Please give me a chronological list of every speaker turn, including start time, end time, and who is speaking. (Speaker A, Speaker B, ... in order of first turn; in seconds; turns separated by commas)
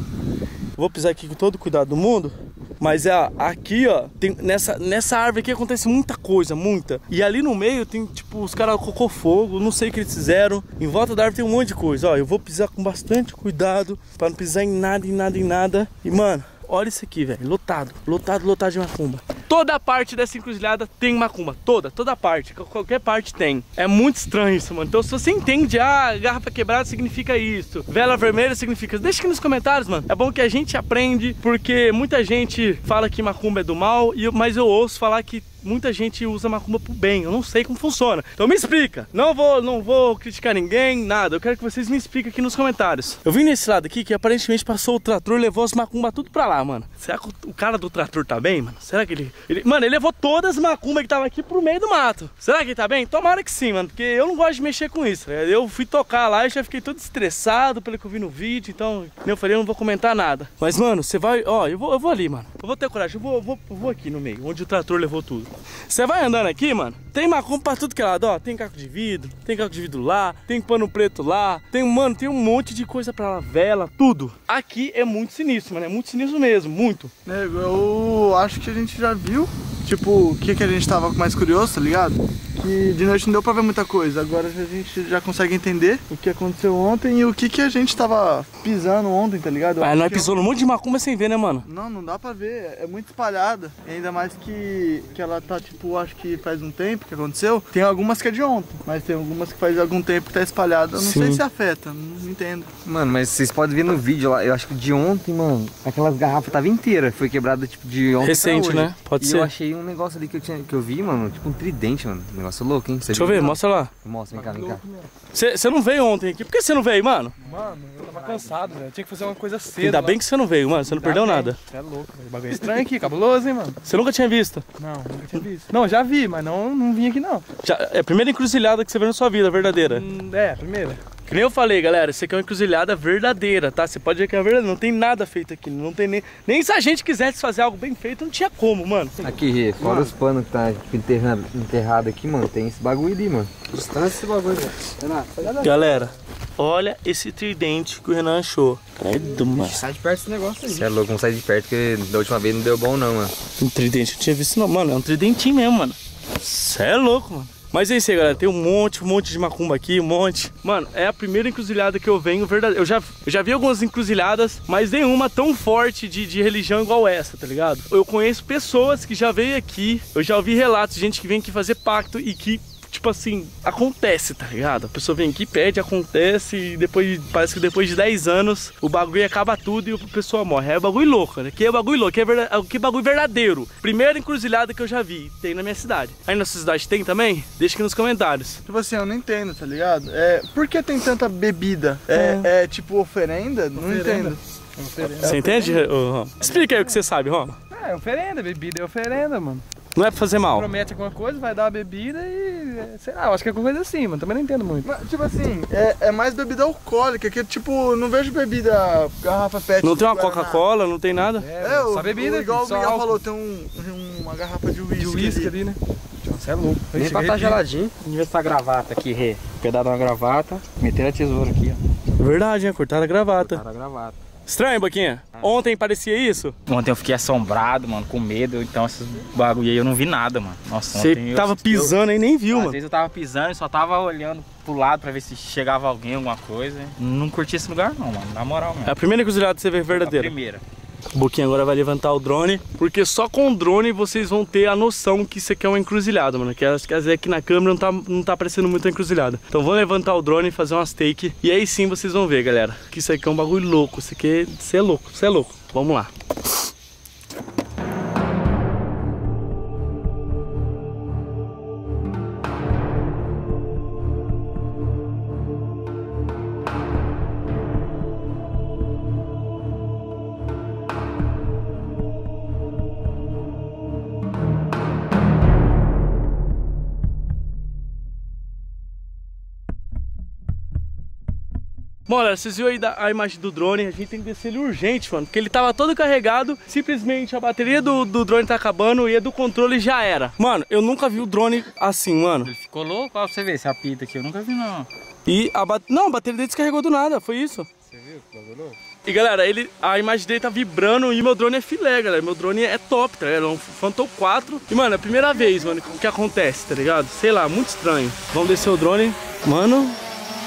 Speaker A: 0.8-77.1, Speaker B: 77.3-90.3, Speaker A: 89.8-91.7, Speaker B: 91.7-102.7, Speaker A: 101.0-101.4, Speaker C: 102.8-114.8, Speaker A: 108.2-109.5, Speaker A: 113.1-113.9, Speaker D: 114.3-115.1, Speaker A: 115.3-117.3, Speaker D: 117.5-120.1, Speaker E: 118.2-118.7, Speaker A: 119.8-121.6, Speaker D: 121.0-123.8, Speaker A: 123.8-124.7, Speaker D: 124.8-127.5, Speaker A: 127.6-130.1, Speaker D: 129.9-131.0, Speaker A: 131.3-139.2, Speaker C: 139.2-143.6, Speaker F: 143.8-145.5, Speaker A: 145.6-149.9, Speaker F: 149.6-150.8, Speaker C: 150.6-153.3, Speaker A: 153.6-188.6, Speaker B: 188.7-194.4, Speaker A: 192.1-192.5, Speaker D: 193.8-194.2, Speaker D: 194.8-195.4, Speaker B: 195.0-195.9, Speaker A: 195.2-197.6, Speaker D: 197.7-199.6, Speaker A: 199.9-200.7, Speaker D: 200.6-204.9, Speaker B: 204.8-210.7, Speaker A: 209.8-211.5, Speaker D: 211.4-213.2, Speaker B: 211.6-215.6, Speaker D: 215.0-217.6, Speaker F: 216.9-217.9, Speaker E: 218.0-221.8, Speaker A: 222.2-223.6, Speaker E: 223.4-224.2, Speaker A: 224.5-226.6, Speaker E: 226.7-239.0, Speaker A: 230.9-232.8, Speaker A: 238.9-240.3, Speaker E: 239.9-240.6, Speaker A: 241.1-256.1, Speaker A: 282.1-292.5, Speaker E: 292.4-294.9, Speaker A: 295.3-297.7, Speaker E: 298.0-298.7, Speaker A: 299.1-310.0